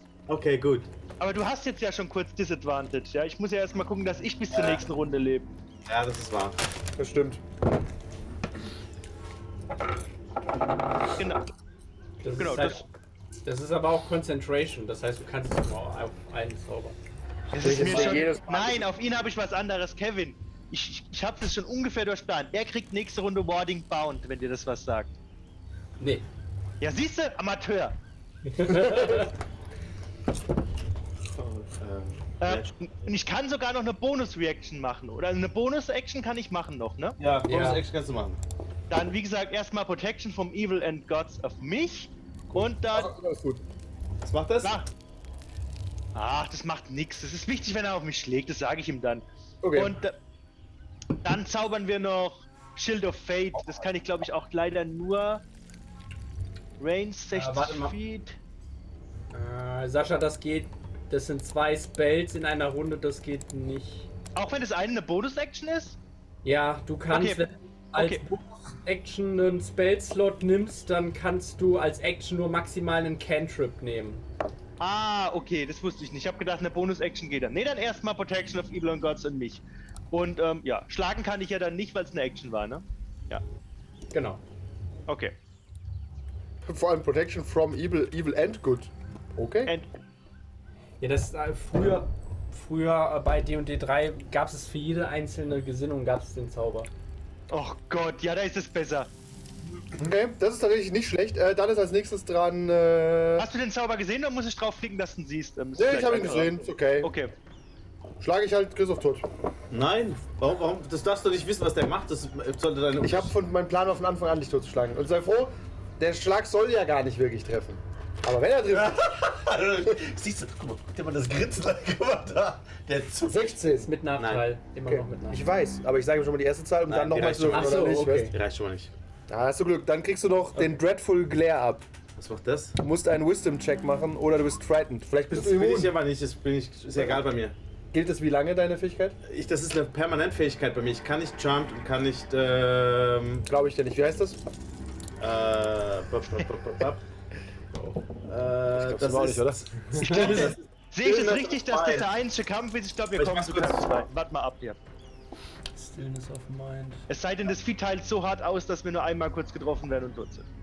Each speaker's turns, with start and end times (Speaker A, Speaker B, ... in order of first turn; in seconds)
Speaker A: 0.3-0.9, 5.9-6.6, 31.8-32.8, 37.2-38.4, 44.2-44.8, 109.7-113.3, 124.2-124.5, 126.9-128.9, 132.2-132.8, 135.3-137.6, 139.3-143.5, 145.2-147.0, 148.3-152.1, 153.2-153.9
Speaker B: 1.2-5.5, 11.2-11.4, 12.4-12.8, 17.5-25.1, 26.8-28.0, 32.4-37.1, 38.9-43.1, 44.6-44.9, 46.1-50.2, 51.2-55.4, 56.8-58.4, 64.3-66.0, 67.1-68.2, 74.8-83.4, 85.1-85.4, 97.5-99.1, 103.4-107.3, 150.0-154.8, 157.1-160.5
Speaker C: 7.0-7.4, 17.6-18.9, 42.5-43.6, 49.6-50.0, 86.6-89.7, 100.0-103.5, 105.8-107.1, 108.2-109.3, 113.0-119.2, 123.3-123.9, 124.9-128.3, 129.3-131.8, 132.8-135.9, 137.0-137.2, 137.9-139.2, 143.5-144.4, 148.7-149.7
Speaker D: 12.2-12.8, 13.4-17.0, 17.6-18.2, 26.0-26.3, 28.5-29.3, 37.5-37.8, 57.3-58.0, 59.3-64.1, 66.4-74.2, 84.1-84.4, 91.0-96.9, 123.8-125.5, 127.5-128.3, 147.7-148.0, 150.0-150.5, 155.7-157.1
Speaker E: 118.7-123.6